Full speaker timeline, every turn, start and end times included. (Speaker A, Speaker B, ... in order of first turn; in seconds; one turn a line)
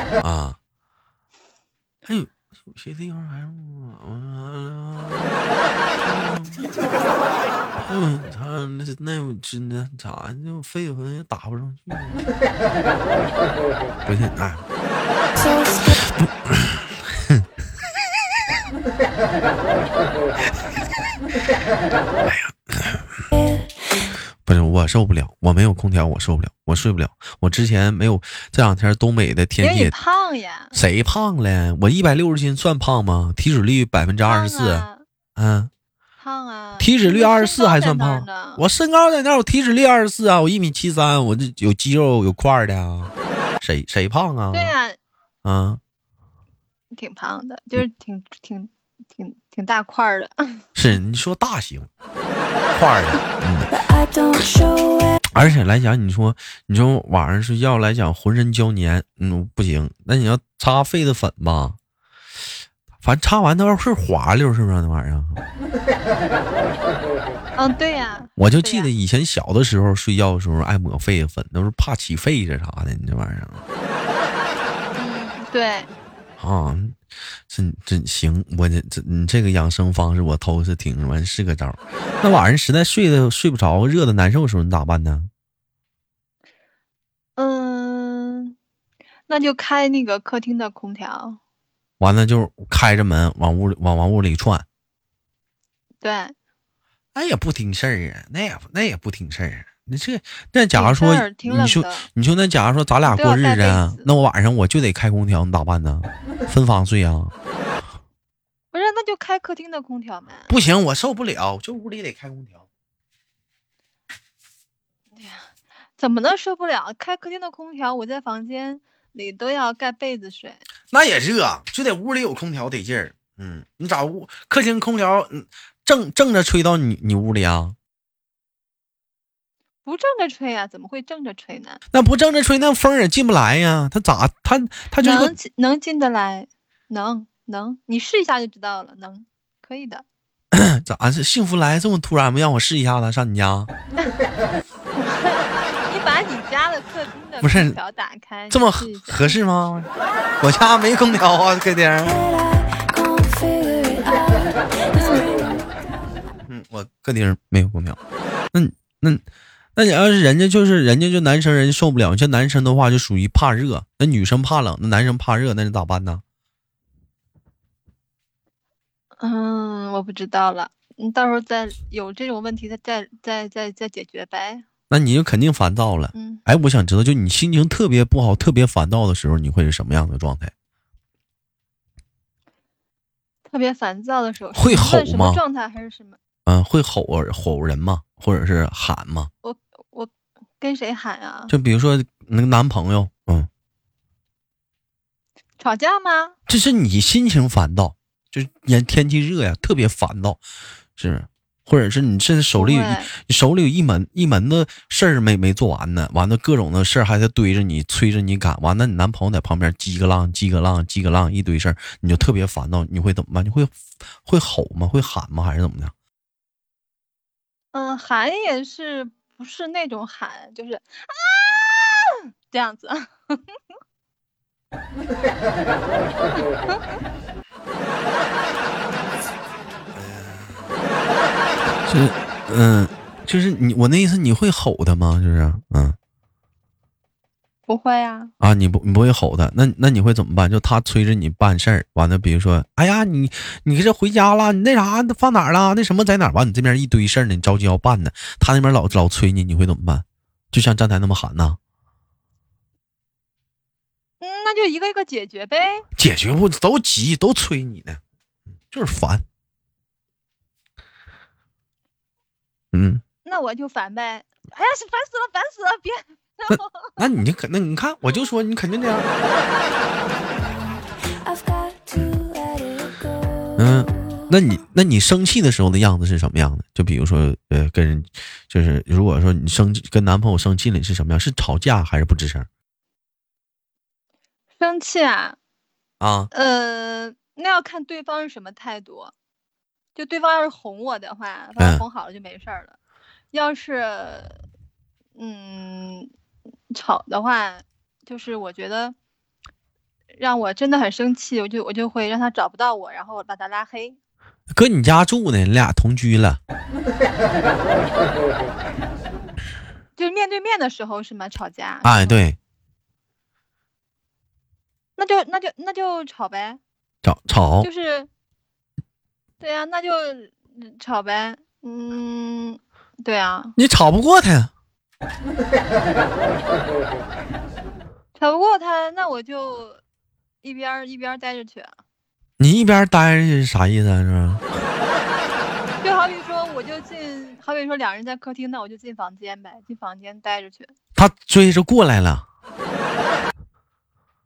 Speaker A: 0.2-0.6
Speaker A: 2.0-5.3
Speaker A: 6.0-6.6
Speaker A: 7.8-12.2
Speaker A: 14.1-14.6
Speaker A: 15.8-17.4
Speaker A: 22.3-23.1
Speaker A: 24.4-29.9
Speaker B: 29.6-30.8
Speaker A: 30.7-35.7
Speaker B: 34.2-35.0
Speaker B: 36.2-38.6
Speaker A: 36.8-44.7
Speaker B: 44.5-45.0
Speaker A: 45.4-45.8
Speaker B: 46.9-50.6
Speaker A: 50.8-51.9
Speaker A: 52.7-53.7
Speaker C: 54.1-54.9
Speaker A: 55.3-61.8
Speaker A: 63.0-65.4
Speaker B: 67.5-68.9
Speaker A: 68.4-73.6
Speaker B: 75.0-75.9
Speaker A: 76.4-77.0
Speaker A: 77.5-85.3
Speaker B: 87.4-88.5
Speaker B: 89.3-91.4
Speaker A: 92.0-94.6
Speaker B: 96.0-96.3
Speaker A: 97.1-107.3
Speaker B: 100.7-102.1
Speaker B: 103.0-104.0
Speaker B: 108.7-110.5
Speaker A: 110.5-112.6
Speaker B: 116.0-120.6
Speaker A: 120.9-127.8
Speaker B: 129.8-131.8
Speaker A: 131.9-135.3
Speaker B: 135.0-140.0
Speaker A: 140.5-143.7
Speaker B: 145.0-149.4
Speaker A: 147.4-147.8
Speaker A: 148.5-149.9
Speaker A: 150.4-152.2
Speaker C: 153.0-154.1
Speaker B: 154.9-155.3
Speaker A: 156.5-158.0
Speaker A: 158.5-159.2
Speaker A: 159.8-166.2
Speaker B: 169.2-174.6
Speaker A: 174.9-180.5
Speaker B: 176.1-176.4
Speaker B: 183.5-186.2
Speaker A: 184.5-185.4
Speaker A: 186.4-189.3
Speaker B: 189.4-191.5
Speaker A: 191.5-193.5
Speaker B: 195.6-196.3
Speaker A: 196.5-200.4
Speaker A: 201.0-215.9
Speaker B: 202.5-203.1
Speaker B: 217.7-223.5
Speaker B: 226.3-226.8
Speaker A: 230.1-230.4
Speaker A: 231.8-235.9
Speaker B: 237.7-238.3
Speaker A: 238.4-251.6
Speaker B: 254.2-255.8
Speaker A: 256.0-258.0
Speaker A: 258.7-259.2
Speaker A: 262.7-263.0
Speaker B: 263.2-267.0
Speaker A: 267.0-269.1
Speaker A: 273.6-282.5
Speaker B: 284.6-285.4
Speaker A: 286.0-286.3
Speaker B: 286.3-289.1
Speaker B: 289.9-292.8
Speaker A: 291.6-291.8
Speaker B: 293.3-294.4
Speaker B: 295.1-296.1
Speaker B: 296.7-298.9
Speaker B: 300.2-304.0
Speaker A: 304.5-306.4
Speaker B: 309.9-312.2
Speaker A: 311.8-312.4
Speaker B: 315.0-316.6
Speaker A: 317.0-317.7
Speaker B: 317.6-318.1
Speaker B: 319.4-323.5
Speaker A: 323.6-324.5
Speaker B: 328.1-329.8
Speaker B: 330.4-331.7
Speaker A: 332.4-334.4
Speaker B: 335.8-340.7
Speaker A: 340.9-342.2